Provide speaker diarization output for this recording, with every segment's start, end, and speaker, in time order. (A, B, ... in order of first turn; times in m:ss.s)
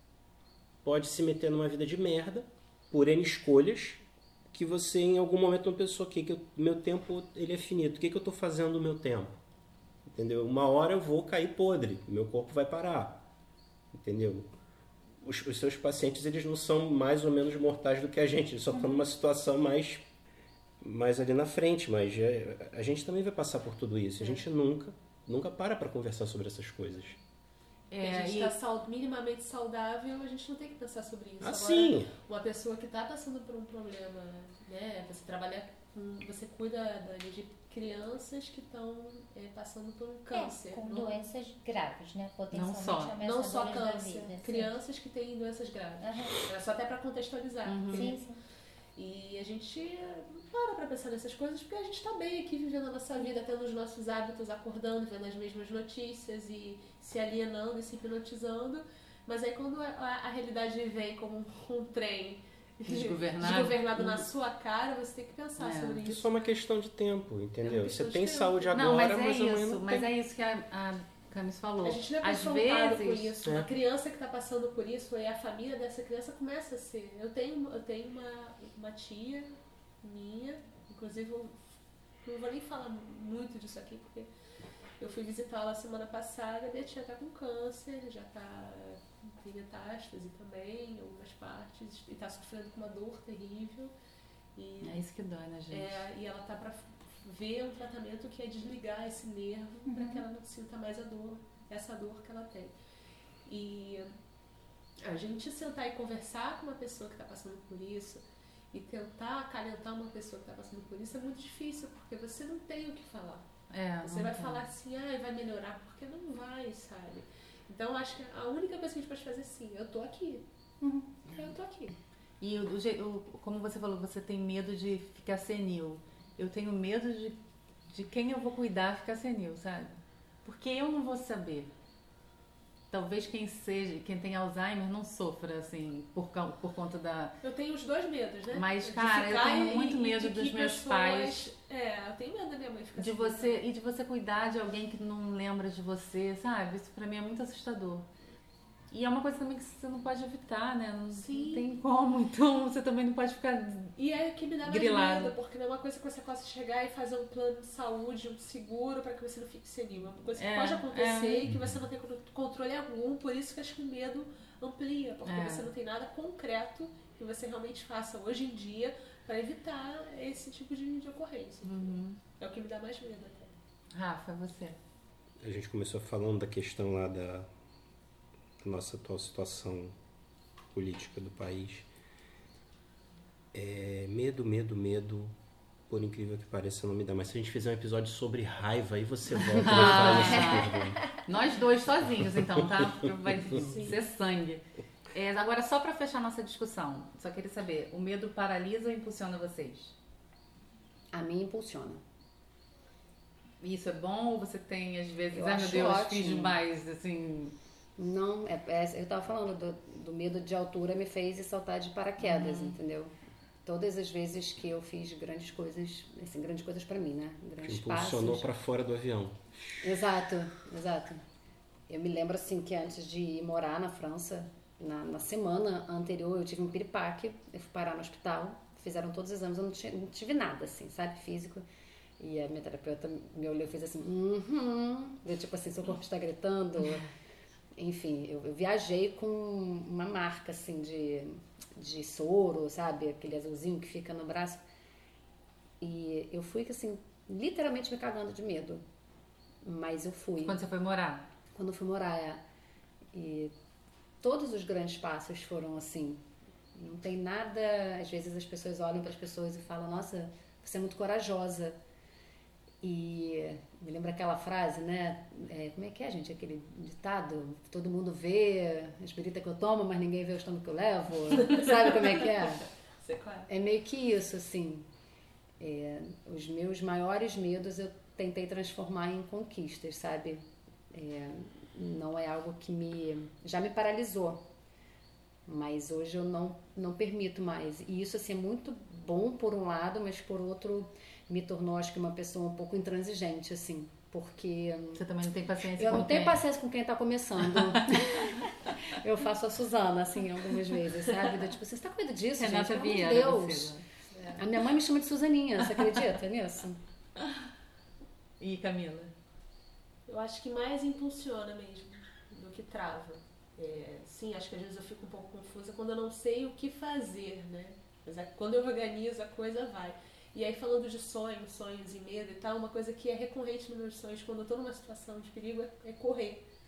0:00.8-0:09.4 A
0:10.1-0:13.2 A
0:13.9-0:14.5 A
0:15.2-0:20.0 A
0:20.8-0:27.2 A
0:27.9-0:28.5 B
0:28.0-0:41.2 C
0:31.4-0:32.1 A
0:40.3-0:44.7 D
0:42.5-0:43.2 B
0:43.2-0:48.2 C
0:46.0-0:46.4 D
0:47.7-0:48.1 B
0:47.8-0:48.4 D
0:49.0-1:06.2 C
1:02.8-1:04.2 B
1:05.6-1:06.0 B
1:06.0-1:10.1 A
1:07.6-1:08.7 C
1:08.7-1:13.3 B
1:11.8-1:19.5 C
1:20.0-1:21.6 C
1:22.2-1:24.3 C
1:25.0-1:33.9 C
1:34.6-1:35.0 C
1:34.8-1:36.0 B
1:35.7-1:42.7 C
1:39.8-1:40.2 D
1:43.4-1:44.1 C
1:45.0-1:53.5 C
1:53.7-1:54.6 B
1:54.0-2:00.4 C
2:00.8-2:01.4 D
2:01.3-2:01.9 C
2:02.4-2:07.4 B
2:07.9-2:11.7 B
2:12.9-2:17.3 B
2:17.4-2:23.6 C
2:18.5-2:21.5 B
2:23.0-2:28.1 B
2:28.9-2:33.9 B
2:31.1-2:31.7 C
2:34.0-2:51.8 C
2:34.7-2:35.3 B
2:40.4-2:41.5 B
2:45.2-2:45.7 B
2:51.6-2:52.2 B
2:52.4-2:53.5 C
2:53.9-2:54.8 B
2:55.4-2:57.5 A
2:58.6-2:59.9 A
3:00.7-3:01.9 A
3:03.5-3:05.4 A
3:05.9-3:11.1 A
3:09.6-3:09.9 E
3:09.6-3:10.7 B
3:10.2-3:11.2 D
3:11.3-3:19.9 B
3:13.6-3:14.0 C
3:21.1-3:22.0 E
3:23.6-3:27.5 B
3:25.3-3:26.6 E
3:28.0-3:33.1 E
3:32.2-3:32.8 B
3:33.6-3:38.5 E
3:37.6-3:39.9 A
3:39.8-3:41.2 E
3:41.9-3:51.7 E
3:52.2-3:57.1 E
3:57.8-4:04.6 E
4:05.8-4:08.8 E
4:09.6-4:10.6 E
4:10.4-4:11.3 B
4:11.5-4:12.4 E
4:13.1-4:13.5 E
4:14.2-4:21.8 E
4:22.8-4:32.6 E
4:33.0-4:33.5 C
4:33.5-4:34.9 E
4:35.6-4:44.5 E
4:45.5-4:55.0 E
4:55.0-4:56.4 B
4:55.8-5:03.8 E
4:57.8-4:58.2 B
5:02.4-5:03.8 B
5:04.4-5:06.8 E
5:08.4-5:09.1 B
5:10.1-5:26.4 C